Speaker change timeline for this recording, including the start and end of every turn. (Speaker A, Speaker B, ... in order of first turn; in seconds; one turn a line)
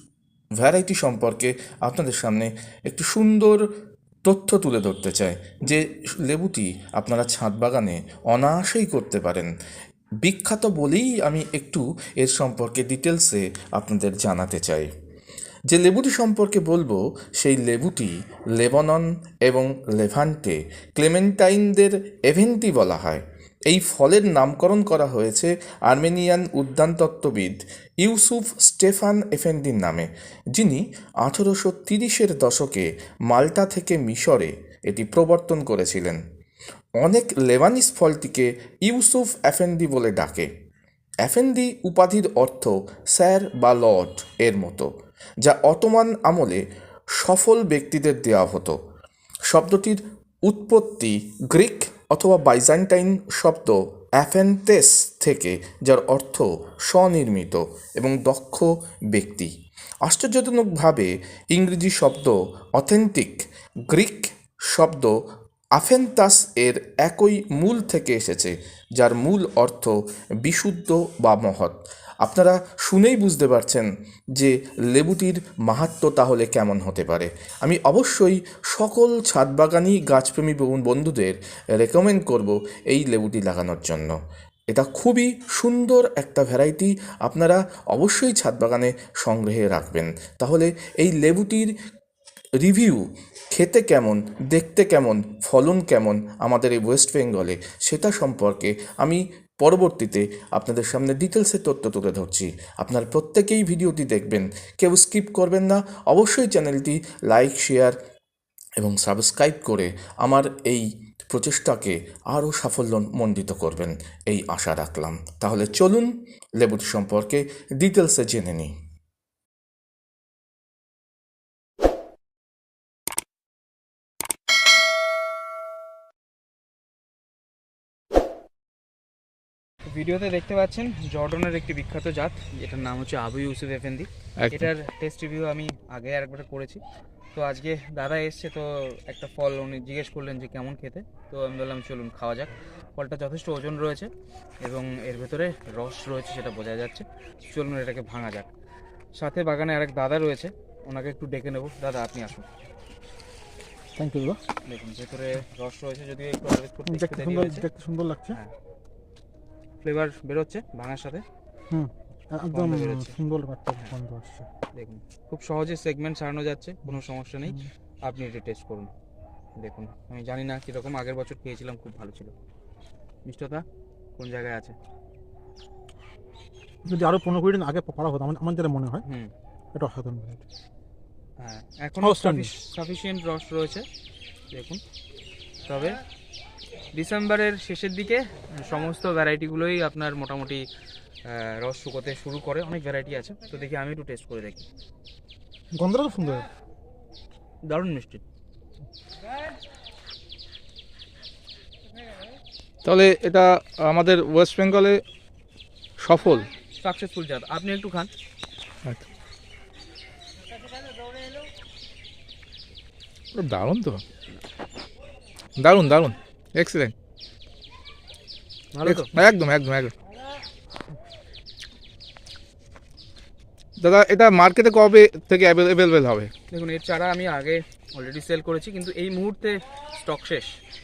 Speaker A: 0.6-3.7
Speaker A: 4.2-9.5
Speaker A: 10.2-14.9
Speaker A: 15.7-36.2
Speaker A: 37.0-40.5
Speaker A: 41.2-44.9
Speaker A: 45.4-46.6
Speaker A: 47.2-48.7
Speaker A: 49.5-59.5
Speaker A: 60.0-65.1
Speaker A: 65.8-69.9
Speaker A: 70.4-84.1
Speaker A: 84.7-91.7
Speaker A: 92.6-107.9
Speaker A: 108.8-118.7
Speaker B: 129.9-136.8
Speaker B: 137.3-144.1
Speaker B: 144.6-148.5
Speaker B: 149.2-152.5
Speaker C: 153.9-154.4
Speaker B: 154.7-157.6
Speaker C: 156.9-158.4
Speaker B: 159.8-161.2
Speaker C: 161.7-164.5
Speaker B: 162.5-163.1
Speaker B: 164.8-168.9
Speaker B: 169.6-172.3
Speaker B: 173.2-173.6
Speaker B: 174.2-174.8
Speaker C: 176.8-179.0
Speaker B: 179.1-179.3
Speaker C: 179.7-180.4
Speaker B: 181.4-183.8
Speaker C: 182.0-182.6
Speaker B: 184.5-184.8
Speaker B: 185.7-186.0
Speaker B: 186.9-190.6
Speaker B: 191.2-194.7
Speaker C: 195.7-196.4
Speaker B: 197.7-198.2
Speaker D: 202.8-205.0
Speaker D: 206.0-206.4
Speaker B: 206.8-208.1
Speaker D: 213.3-214.0
Speaker D: 215.6-216.9
Speaker B: 218.8-219.1
Speaker D: 218.8-219.9
Speaker D: 223.8-226.3
Speaker B: 226.5-230.6